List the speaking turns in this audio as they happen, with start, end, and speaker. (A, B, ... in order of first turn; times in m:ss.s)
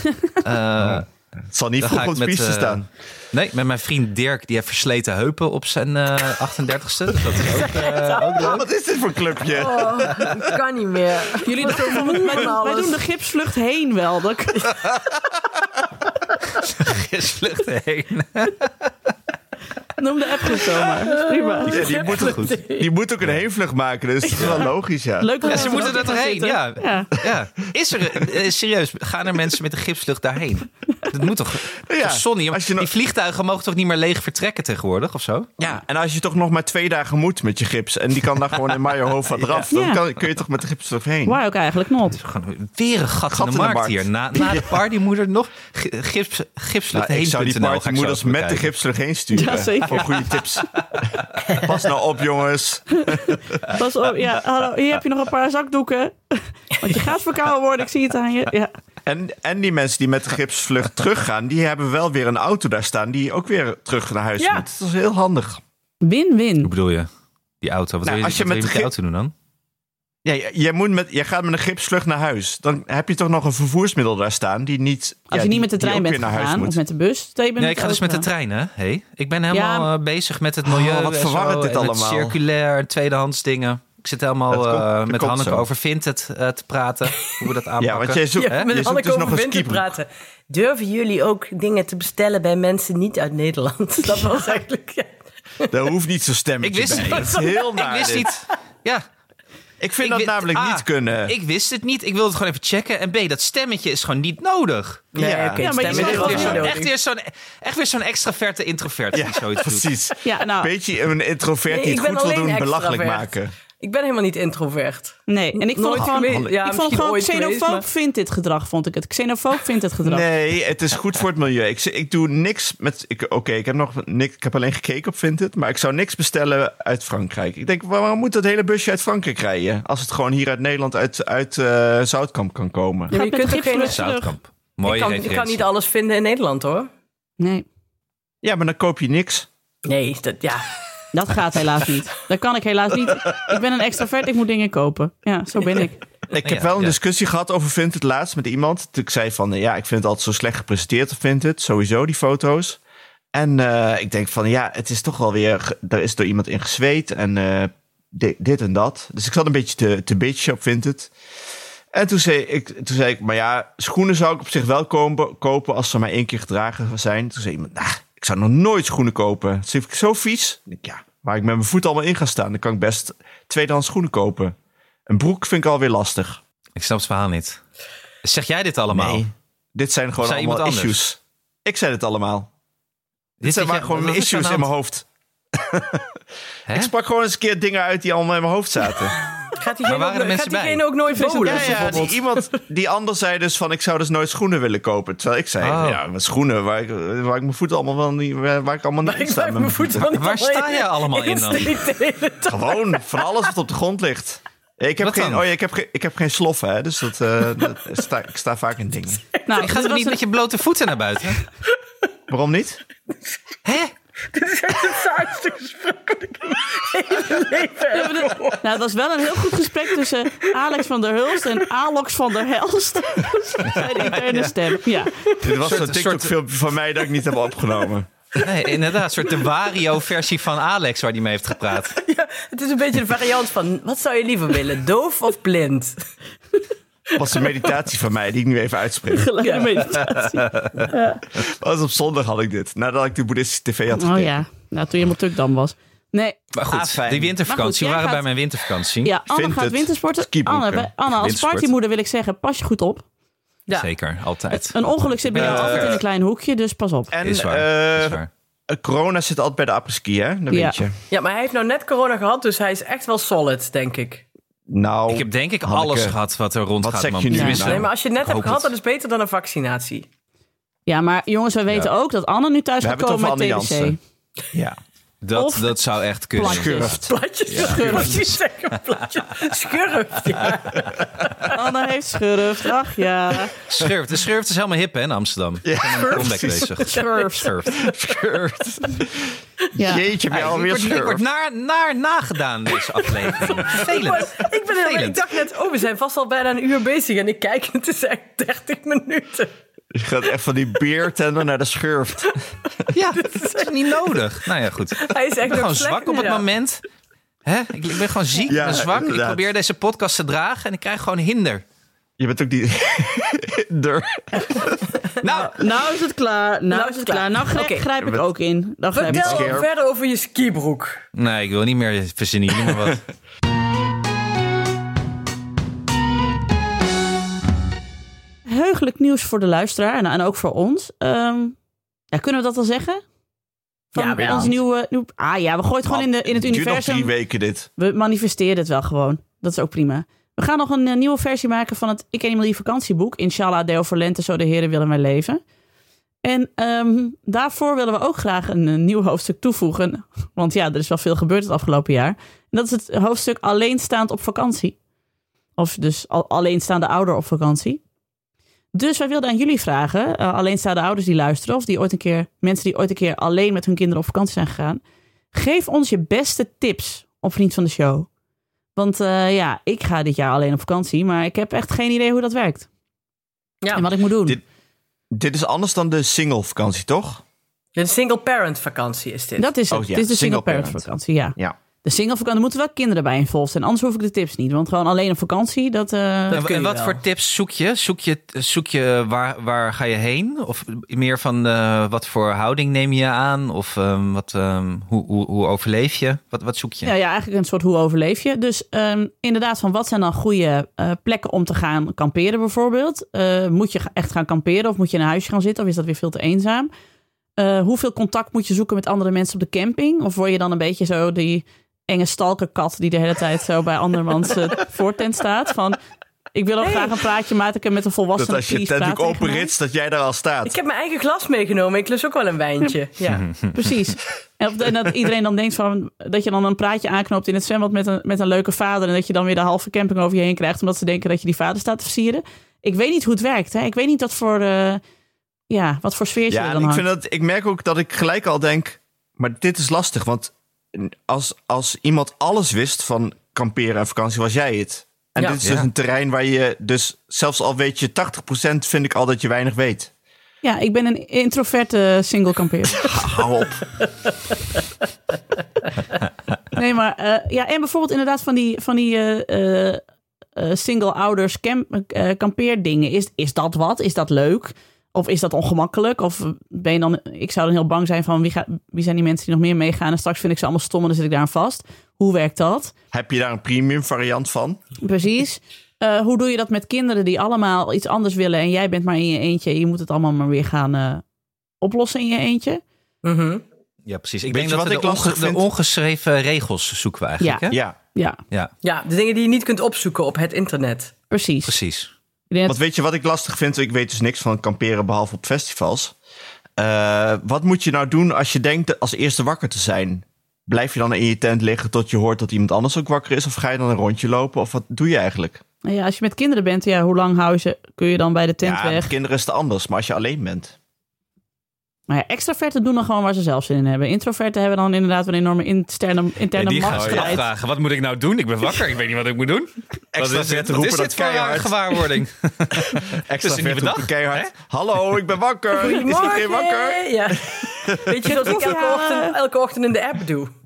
0:00.4-0:01.1 A
0:00.8-0:02.9 B
0:01.8-0:08.7 A
0:07.4-0:08.6 C
0:08.4-0:10.3 B
0:09.5-0:13.0 C
0:11.4-0:14.8 D
0:16.5-0:18.9 A
0:20.0-0:21.8 D
0:21.0-0:22.9 C
0:21.6-0:25.9 B
0:21.8-0:22.5 A
0:24.3-0:27.1 D
0:25.4-0:35.5 A
0:31.8-0:32.9 B
0:35.6-0:41.4 B
0:39.6-0:40.0 D
0:41.2-0:42.2 D
0:42.2-0:48.7 A
0:43.3-0:44.7 B
0:46.9-0:53.6 B
0:49.3-0:50.6 D
0:53.1-0:58.7 D
0:59.0-1:05.6 B
1:04.4-1:04.6 C
1:06.0-1:06.7 D
1:06.6-1:07.1 A
1:07.6-1:09.3 A
1:08.0-1:08.9 B
1:10.2-1:16.8 B
1:15.3-1:18.2 D
1:17.6-1:28.7 A
1:19.5-1:19.9 D
1:20.6-1:22.4 B
1:24.5-1:25.6 B
1:27.8-1:29.9 B
1:28.3-1:35.7 C
1:35.7-1:38.4 B
1:36.6-1:39.0 A
1:37.1-1:37.7 C
1:39.8-1:41.3 B
1:40.0-1:45.1 A
1:45.1-1:46.9 C
1:45.2-1:46.7 B
1:45.6-1:46.7 D
1:45.8-1:49.9 A
1:49.1-1:53.5 B
1:50.2-1:50.7 D
1:51.7-1:57.8 C
1:55.3-2:00.2 D
1:56.2-1:56.5 B
2:00.0-2:13.1 B
2:13.1-2:14.0 C
2:13.1-2:14.3 D
2:13.8-2:15.6 A
2:14.8-2:16.9 C
2:17.4-2:17.6 D
2:18.4-2:19.5 B
2:19.8-2:20.8 C
2:21.1-2:26.0 D
2:26.3-2:32.8 B
2:26.4-2:27.0 A
2:33.3-2:41.1 B
2:41.9-2:54.5 B
2:55.1-2:56.4 B
2:56.8-2:57.6 A
2:58.2-2:59.2 A
2:58.9-3:02.5 B
3:00.2-3:01.0 A
3:03.4-3:04.7 A
3:03.4-3:06.2 B
3:06.7-3:09.2 B
3:09.5-3:12.5 C
3:09.8-3:10.8 A
3:11.1-3:12.1 D
3:11.4-3:20.1 B
3:15.6-3:16.0 A
3:19.0-3:23.5 C
3:20.0-3:21.8 A
3:22.4-3:29.2 B
3:25.0-3:25.4 A
3:29.3-3:29.6 C
3:29.5-3:30.2 D
3:29.6-3:31.4 A
3:32.3-3:32.8 B
3:33.6-3:33.9 A
3:34.3-3:38.7 C
3:37.9-3:45.3 D
3:43.7-3:44.5 A
3:45.3-3:48.1 B
3:45.5-3:46.3 A
3:48.4-3:52.0 A
3:52.0-3:56.0 C
3:57.2-3:59.3 B
3:57.2-3:57.6 C
3:59.1-4:01.2 D
3:59.4-3:59.9 C
4:00.0-4:00.9 A
4:01.3-4:04.4 B
4:03.9-4:06.4 D
4:06.5-4:09.1 A
4:06.7-4:07.3 B
4:07.5-4:08.2 D
4:09.0-4:13.0 D
4:09.3-4:10.9 B
4:11.1-4:11.7 A
4:13.7-4:16.0 A
4:14.5-4:17.1 D
4:15.3-4:16.0 B
4:17.1-4:20.9 B
4:17.2-4:18.3 A
4:20.5-4:20.8 D
4:21.1-4:24.2 C
4:24.7-4:26.2 B
4:25.1-4:28.7 A
4:26.8-4:27.9 B
4:27.3-4:27.6 D
4:27.5-4:30.1 C
4:30.9-4:34.0 D
4:32.8-4:34.0 B
4:34.5-4:34.8 B
4:35.2-4:38.4 A
4:35.3-4:35.8 D
4:36.4-4:37.0 D
4:36.4-4:37.1 B
4:36.8-4:41.6 C
4:37.6-4:38.3 D
4:41.5-4:43.5 D
4:43.6-4:47.9 A
4:45.6-4:46.8 B
4:46.9-4:47.6 D
4:47.6-4:51.2 B
4:49.8-4:50.0 D
4:50.3-4:55.2 A
4:53.0-4:59.5 C
4:59.9-5:02.4 B
5:02.9-5:06.8 A
5:03.2-5:04.3 C
5:05.0-5:06.4 C
5:07.4-5:11.6 A
5:08.4-5:09.4 B
5:12.2-5:14.8 B
5:15.2-5:15.5 A
5:15.2-5:19.6 D
5:16.7-5:17.9 C
5:18.9-5:21.0 C
5:19.0-5:19.7 B
5:21.1-5:23.0 A
5:28.4-5:31.6 D
5:32.1-5:33.0 D
5:33.9-5:34.6 C
5:33.9-5:37.1 D
5:34.2-5:34.5 B
5:35.8-5:37.7 B
5:37.8-5:45.4 D
5:46.2-5:54.8 D
5:55.6-5:57.8 D
5:58.7-6:04.8 D
6:05.3-6:08.1 D
6:08.8-6:12.7 D
6:13.6-6:13.9 C
6:13.7-6:14.4 D
6:15.1-6:17.2 B
6:17.8-6:19.5 C
6:19.4-6:26.4 D
6:19.7-6:20.8 B
6:26.3-6:27.0 C
6:26.3-6:36.9 A
6:36.8-6:46.7 D
6:47.4-6:55.8 D
6:56.3-6:59.5 D
6:56.6-6:57.0 C
6:58.2-7:00.5 B
7:00.4-7:03.3 C
7:03.1-7:03.6 A
7:03.5-7:14.8 D
7:15.5-7:16.8 D
7:16.3-7:29.9 B
7:25.4-7:25.7 A
7:30.4-7:33.1 D
7:32.8-7:33.6 B
7:36.5-7:39.8 D
7:40.4-7:52.7 D
7:52.9-7:54.6 B
7:54.8-8:01.0 D
8:01.6-8:02.6 D
8:03.0-8:03.4 C
8:03.8-8:07.6 A
8:04.3-8:05.5 B
8:07.2-8:08.2 D
8:07.5-8:07.8 B
8:08.6-8:10.9 C
8:11.1-8:11.5 D
8:11.4-8:11.9 A
8:12.3-8:12.6 D
8:12.4-8:15.9 B
8:16.6-8:25.4 B
8:25.6-8:28.9 D
8:28.4-8:30.5 B
8:31.9-8:37.2 D
8:36.3-8:44.3 A
8:36.7-8:37.2 B
8:39.9-8:41.8 B
8:42.7-8:48.2 B
8:45.6-8:50.3 C
8:48.0-8:49.1 D